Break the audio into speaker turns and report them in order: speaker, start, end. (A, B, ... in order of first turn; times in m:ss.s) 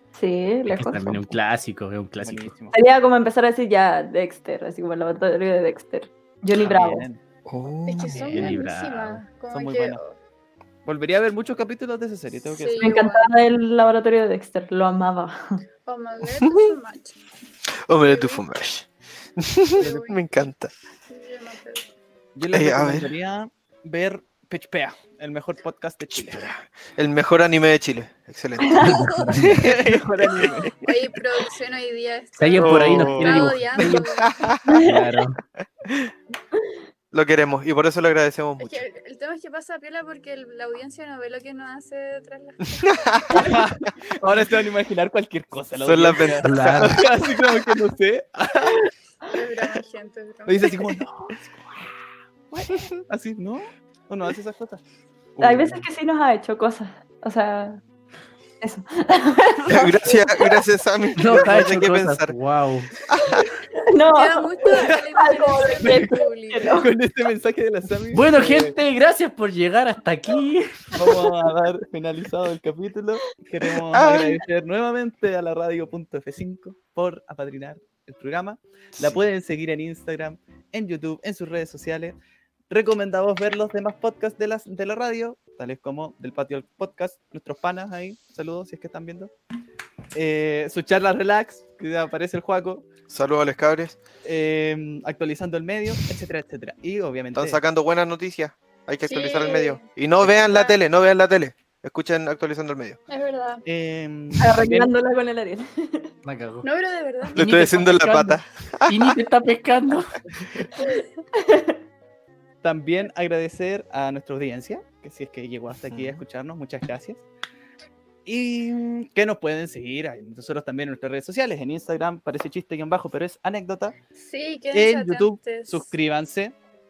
0:00.1-0:01.3 A
0:00.7-0:02.5 B
0:02.2-0:02.8 C
0:02.7-0:07.1 A
0:06.6-0:07.2 C
0:07.4-0:08.5 D
0:07.8-0:10.2 E
0:08.1-0:09.2 B
0:09.5-0:10.0 C
0:10.8-0:13.0 C
0:12.5-0:13.3 E
0:12.8-0:15.6 A
0:15.8-0:17.2 E
0:16.4-0:16.7 D
0:17.9-0:20.7 D
0:18.0-0:18.4 E
0:19.8-0:20.2 E
0:21.1-0:21.9 E
0:22.3-0:26.4 C
0:22.5-0:23.1 D
0:26.2-0:30.7 D
0:28.6-0:29.1 A
0:28.8-0:29.5 E
0:28.8-0:29.5 B
0:29.5-0:30.7 C
0:30.4-0:34.3 E
0:32.4-0:34.0 B
0:32.6-0:34.8 D
0:34.6-0:35.0 A
0:34.8-0:35.4 B
0:37.1-0:38.8 D
0:38.6-0:43.5 E
0:42.8-0:43.5 D
0:43.3-0:48.9 C
0:45.8-0:47.8 D
0:46.4-0:47.0 B
0:49.3-0:50.8 E
0:50.4-0:51.8 C
0:52.5-0:54.8 C
0:55.4-0:55.8 C
0:55.4-0:57.8 A
0:58.6-1:00.6 A
0:59.7-1:02.3 D
1:01.2-1:02.9 B
1:03.1-1:03.5 D
1:03.3-1:06.9 A
1:04.1-1:06.8 E
1:06.6-1:08.7 C
1:08.1-1:10.9 B
1:10.9-1:22.2 C
1:13.9-1:14.3 D
1:22.7-1:29.3 C
1:30.1-1:32.9 C
1:33.1-1:34.0 D
1:34.2-1:37.6 C
1:37.3-1:43.0 D
1:39.0-1:40.8 E
1:43.1-1:43.6 E
1:43.6-1:44.9 C
1:44.4-1:46.1 A
1:46.2-1:46.6 B
1:46.6-1:47.4 E
1:47.4-1:49.2 D
1:47.4-1:50.1 B
1:50.8-1:51.0 E
1:51.3-1:51.8 A
1:52.6-1:57.2 C
1:58.2-2:03.9 C
2:04.1-2:05.9 E
2:04.7-2:06.5 C